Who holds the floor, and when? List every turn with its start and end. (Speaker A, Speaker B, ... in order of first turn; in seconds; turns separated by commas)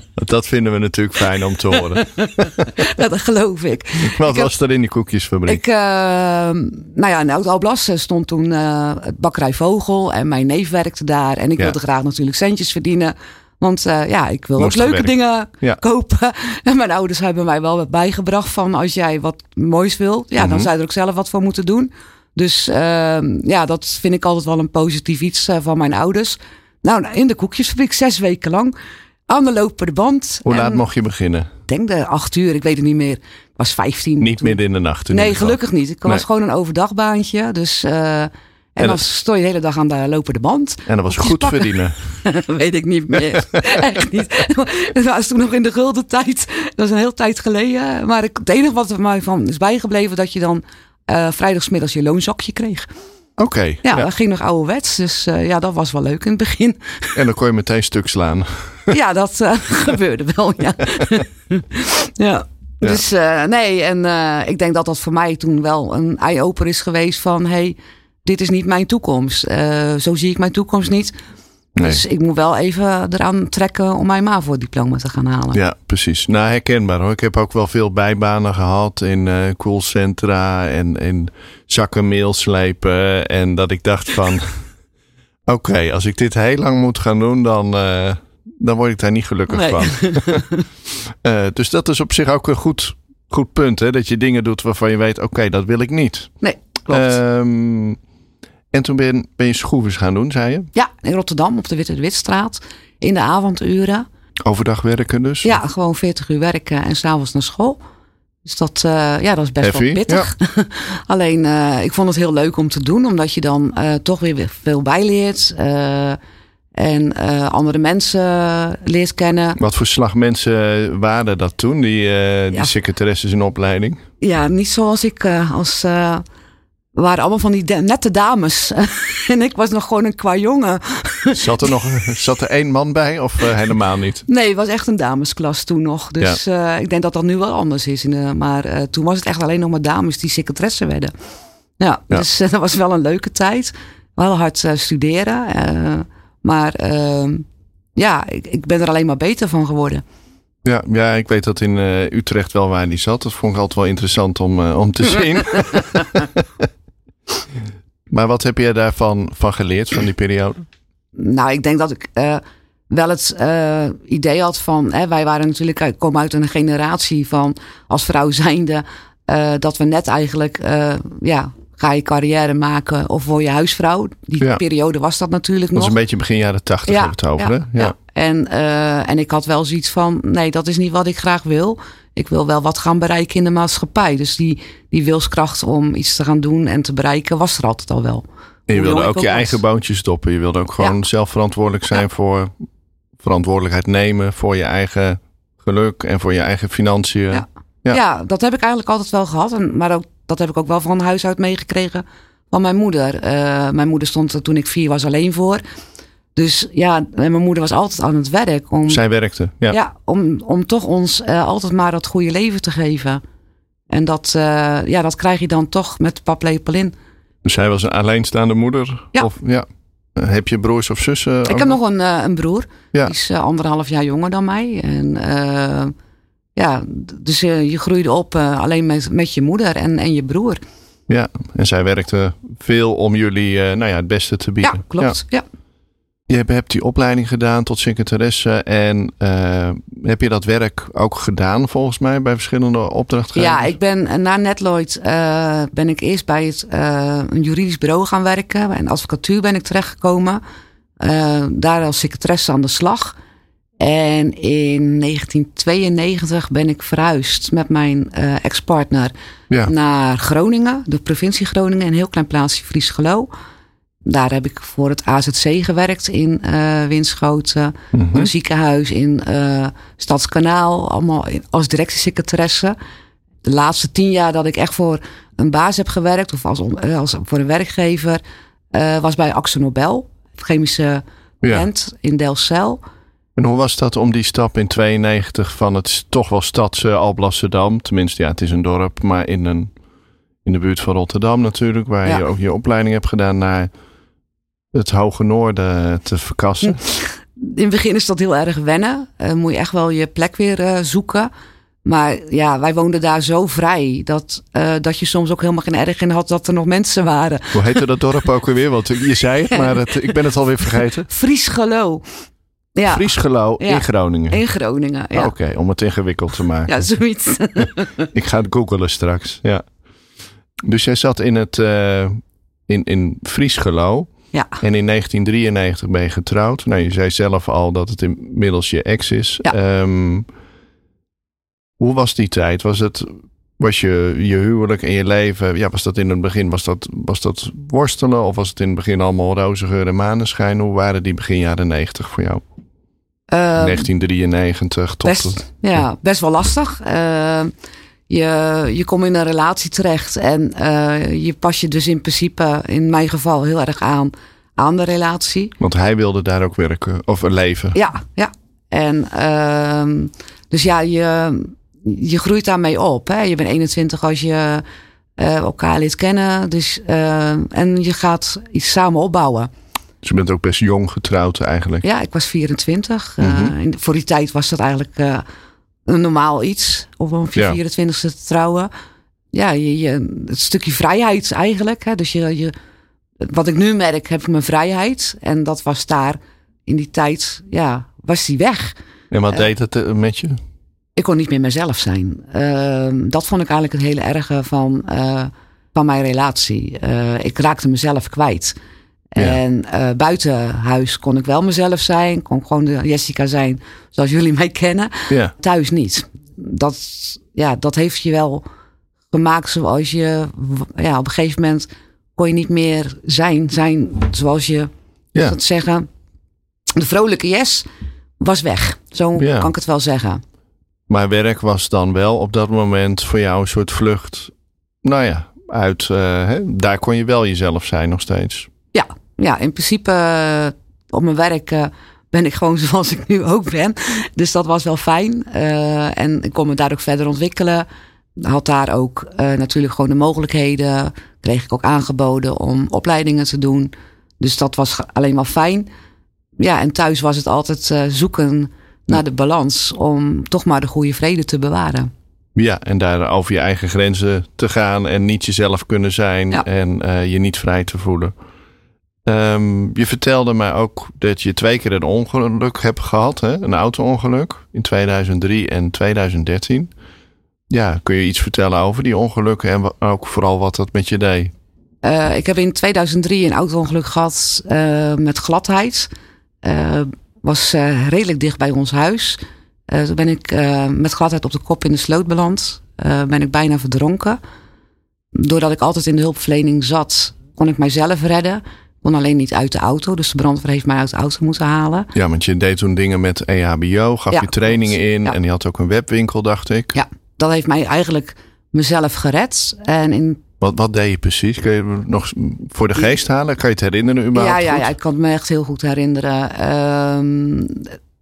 Speaker A: 0.2-2.7, Speaker B: 1.8-4.5, Speaker A: 4.1-5.6, Speaker B: 5.5-28.7, Speaker A: 14.6-15.8, Speaker A: 20.4-20.7, Speaker B: 29.3-30.8, Speaker A: 30.4-31.5, Speaker B: 31.7-34.6, Speaker A: 34.2-36.2, Speaker B: 35.1-52.9, Speaker A: 40.9-42.0, Speaker A: 53.4-54.1, Speaker B: 53.8-57.2, Speaker A: 57.1-58.9, Speaker B: 58.9-71.1, Speaker A: 71.8-72.0, Speaker B: 71.8-75.6, Speaker A: 75.5-84.7, Speaker A: 85.5-90.4, Speaker B: 89.5-90.7, Speaker A: 91.0-96.3, Speaker B: 96.4-97.2, Speaker A: 96.9-98.0, Speaker A: 98.7-100.7, Speaker B: 100.8-104.1, Speaker A: 104.4-105.6, Speaker B: 105.4-107.8, Speaker B: 108.5-116.2, Speaker A: 109.6-110.3, Speaker B: 116.8-119.6, Speaker A: 119.6-124.0, Speaker B: 124.2-126.2, Speaker B: 127.0-131.8, Speaker A: 131.3-134.2, Speaker B: 134.3-141.1, Speaker B: 141.8-150.0, Speaker A: 150.6-156.7, Speaker A: 158.1-160.7, Speaker B: 161.2-176.0, Speaker A: 175.8-177.9, Speaker B: 176.9-189.6, Speaker A: 188.7-192.5, Speaker A: 193.2-198.0, Speaker B: 197.3-205.6, Speaker B: 206.3-209.0, Speaker A: 208.9-209.8, Speaker B: 209.7-213.2, Speaker B: 213.9-216.9, Speaker A: 217.4-221.8, Speaker B: 221.5-225.9, Speaker B: 226.6-230.6, Speaker A: 231.1-235.2, Speaker B: 234.6-235.4, Speaker A: 236.3-243.7, Speaker B: 243.3-250.4, Speaker B: 251.0-253.2, Speaker B: 253.8-259.1, Speaker B: 259.7-263.3, Speaker B: 264.1-272.8, Speaker A: 267.9-268.3, Speaker B: 273.4-278.2, Speaker B: 278.7-282.8, Speaker A: 281.4-281.7, Speaker A: 283.4-289.7, Speaker A: 290.4-293.7, Speaker A: 294.7-296.8, Speaker B: 296.6-301.3, Speaker B: 301.9-307.8, Speaker A: 307.5-311.1, Speaker B: 309.5-310.0, Speaker B: 311.1-312.0, Speaker B: 312.8-315.3, Speaker A: 312.9-314.4, Speaker A: 315.1-316.8, Speaker B: 316.7-318.1, Speaker A: 318.1-319.6, Speaker A: 320.6-330.3, Speaker A: 331.8-342.4, Speaker B: 343.3-343.9, Speaker A: 343.6-345.4, Speaker B: 345.0-347.5, Speaker B: 348.1-355.6, Speaker A: 355.6-357.8, Speaker B: 357.7-364.6, Speaker B: 365.2-369.5, Speaker A: 370.0-371.8, Speaker B: 371.8-375.2, Speaker A: 373.2-373.5, Speaker B: 375.9-378.7, Speaker B: 379.3-382.5, Speaker B: 383.2-388.8, Speaker A: 389.1-390.4, Speaker B: 391.0-398.6, Speaker B: 399.1-408.4, Speaker B: 409.1-415.9, Speaker B: 416.8-417.7, Speaker B: 418.2-420.2, Speaker A: 419.2-419.5, Speaker A: 420.9-424.3, Speaker A: 424.8-428.5, Speaker B: 428.7-437.7, Speaker B: 438.2-445.7, Speaker B: 446.4-451.9, Speaker A: 452.4-458.1, Speaker A: 459.1-466.7, Speaker A: 467.5-471.3, Speaker B: 471.8-475.9, Speaker B: 476.4-484.2, Speaker B: 485.1-491.9, Speaker A: 491.9-496.8, Speaker B: 494.1-495.1, Speaker B: 496.7-500.2, Speaker A: 500.4-504.7, Speaker B: 504.1-507.7